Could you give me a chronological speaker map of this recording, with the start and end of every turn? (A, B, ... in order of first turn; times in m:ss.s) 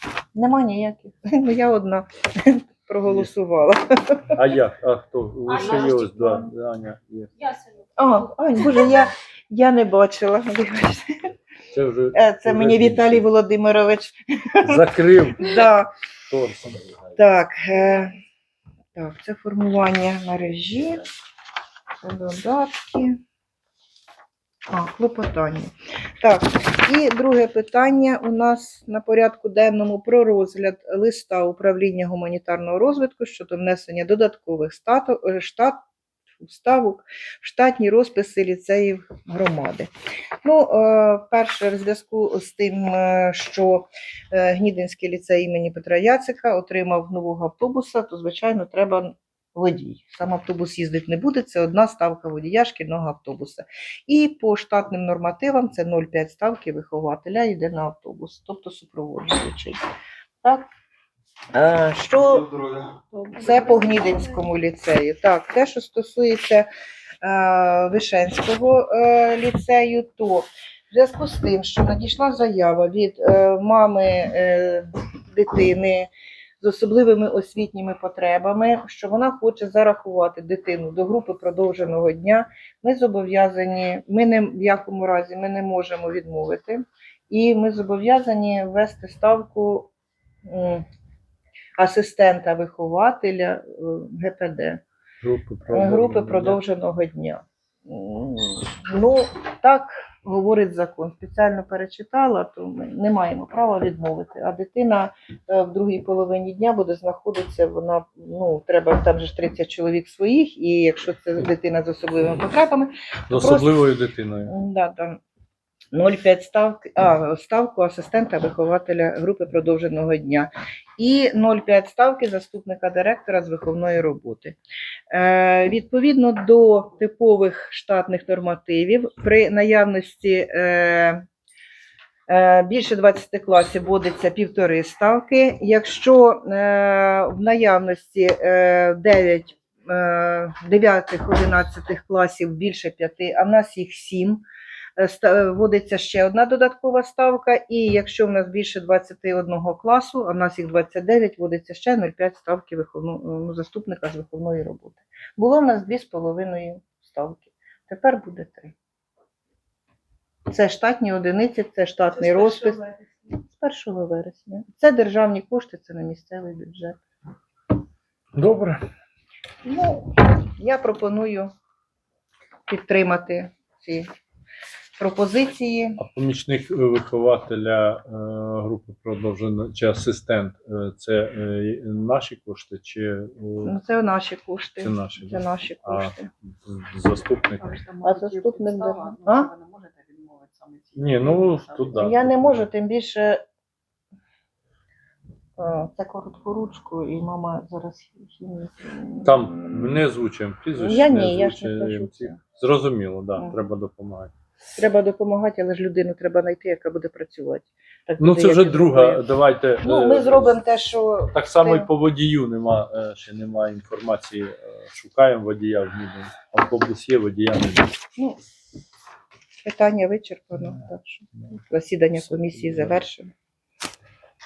0:00.3-0:04.4 A
0:04.4-0:07.5 B
0:08.0-0:11.2 A
0:11.7-0:13.2 B
0:12.1-0:14.8 A
0:14.6-0:15.6 B
0:15.4-0:15.9 A
0:16.3-0:16.8 B
0:17.2-0:18.2 A
0:18.9-0:21.0 A
0:22.0-0:23.2 A
0:24.7-0:35.8 A
0:36.4-0:39.9 A
0:40.4-0:59.8 A
1:01.5-1:02.6 A
1:03.2-1:06.7 A
1:07.2-1:16.1 A
1:16.6-1:29.9 A
1:30.4-1:30.8 A
1:31.8-1:34.8 A
1:35.2-1:36.6 B
1:35.7-1:53.7 A
1:53.3-1:54.5 B
1:54.5-1:55.2 A
1:55.9-2:04.6 A
2:05.1-2:11.2 A
2:12.3-2:24.4 A
2:25.0-2:38.7 A
2:40.5-2:47.0 A
2:42.2-2:43.0 C
2:48.4-2:48.8 B
2:49.6-2:51.5 A
2:52.7-2:54.1 A
2:55.0-2:56.0 A
2:56.0-3:03.8 B
3:03.6-3:06.3 A
3:04.8-3:07.8 B
3:07.6-3:12.0 C
3:08.0-3:09.5 A
3:11.0-3:12.7 B
3:12.0-3:13.4 A
3:15.6-3:20.0 A
3:19.2-3:24.3 B
3:20.8-3:22.4 A
3:24.8-3:29.2 A
3:28.2-3:30.6 B
3:29.8-3:31.9 A
3:31.3-3:37.9 B
3:39.6-3:43.3 A
3:42.2-3:43.0 B